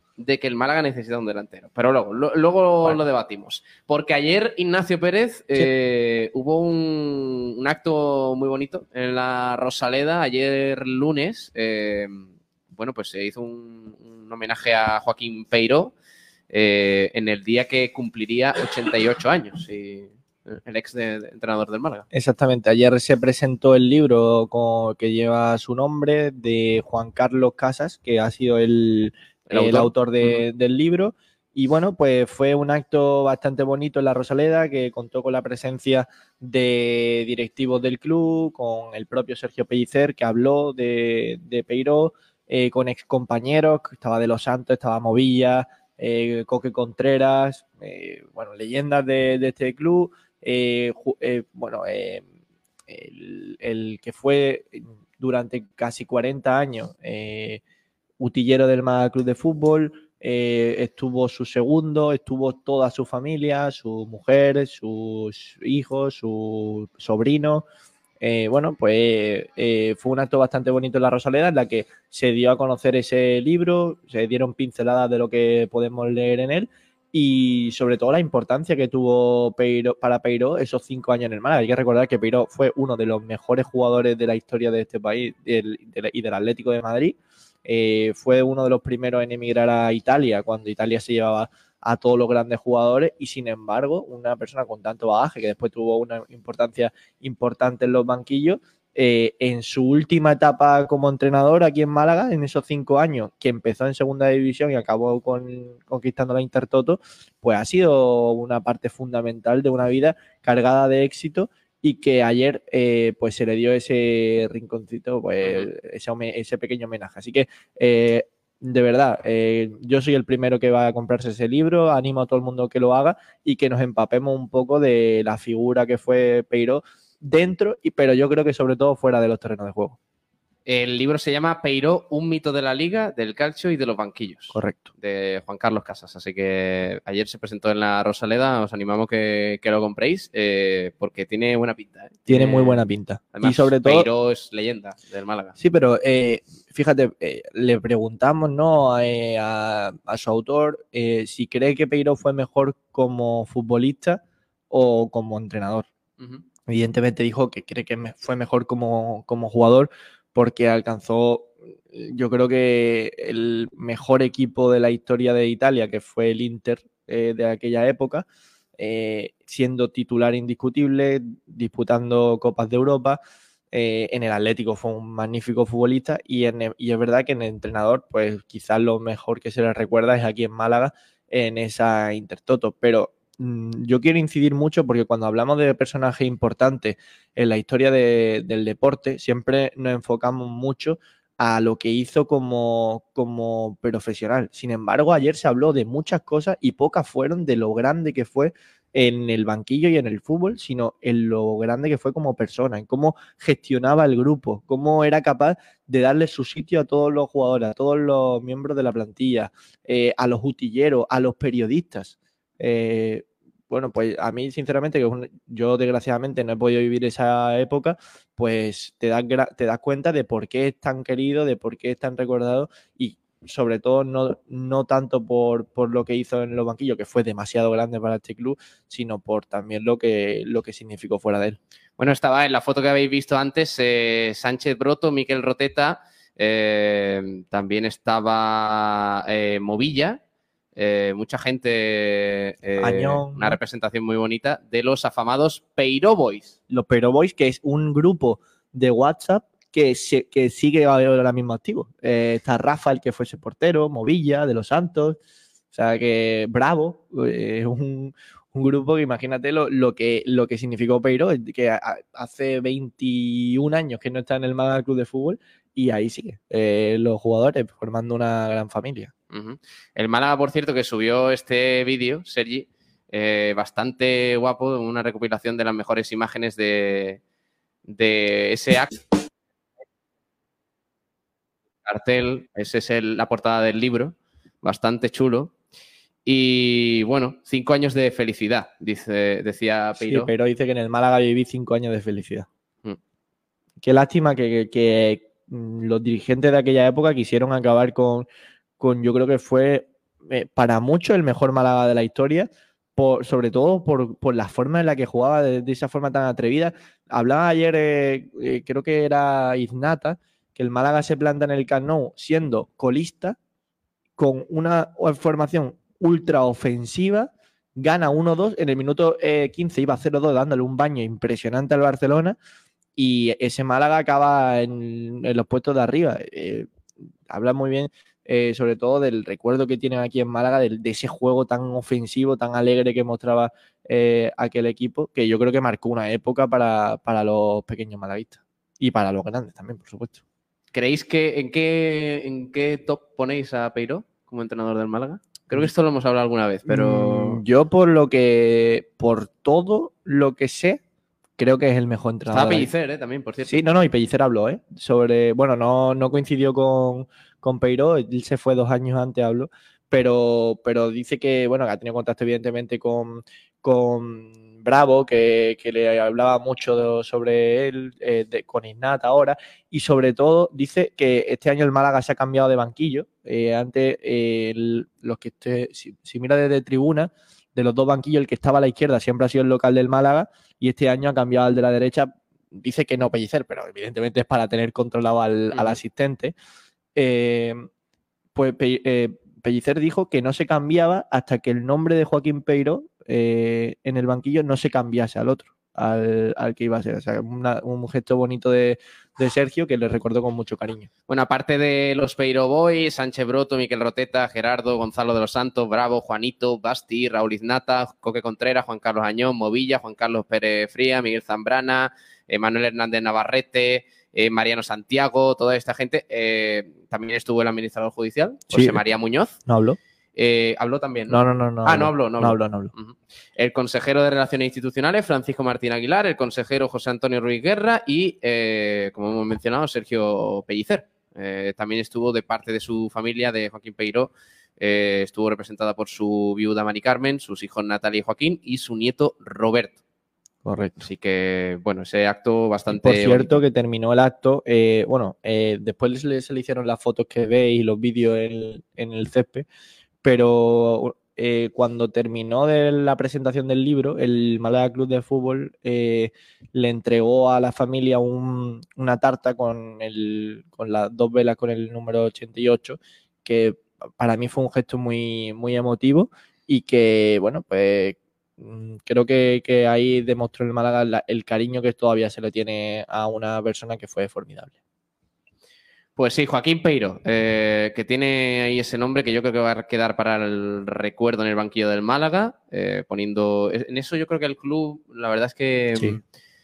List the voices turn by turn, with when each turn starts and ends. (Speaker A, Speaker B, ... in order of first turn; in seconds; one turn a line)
Speaker A: 0.2-15.9
Speaker A: 16.5-22.1
Speaker B: 22.1-52.2
Speaker A: 29.5-30.4
Speaker B: 52.9-57.6
Speaker B: 58.2-67.7
Speaker B: 68.2-130.0
Speaker A: 115.4-115.7
Speaker A: 130.7-142.8
Speaker B: 134.5-134.9
Speaker B: 142.3-144.1
Speaker A: 143.3-145.6
Speaker B: 145.6-155.9
Speaker A: 156.2-156.4
Speaker B: 156.7-168.3
Speaker B: 168.8-173.2
Speaker B: 173.7-231.6
Speaker A: 232.0-240.2
Speaker A: 240.8-246.6
Speaker B: 242.8-243.6
Speaker B: 246.7-255.2
Speaker B: 255.7-269.1
Speaker A: 269.3-277.2
Speaker A: 277.9-279.0
Speaker A: 281.9-285.5
Speaker A: 286.3-290.3
Speaker B: 290.0-292.5
Speaker B: 293.8-298.3
Speaker B: 298.8-313.4
Speaker B: 314.2-322.4
Speaker B: 323.0-326.7
Speaker B: 327.3-340.2
Speaker A: 340.7-347.4
Speaker B: 346.7-350.8
Speaker B: 351.4-352.7
Speaker A: 352.3-353.5
Speaker B: 353.5-386.3
Speaker A: 385.5-385.8
Speaker B: 387.0-387.6
Speaker B: 388.4-400.9
Speaker A: 401.1-419.4
Speaker B: 418.5-418.8
Speaker B: 419.5-419.8
Speaker A: 420.2-439.8
Speaker B: 421.1-422.7
Speaker B: 440.4-440.9
Speaker A: 440.8-443.4
Speaker B: 442.7-449.5
Speaker B: 450.0-474.5
Speaker A: 476.0-486.0
Speaker B: 485.8-486.0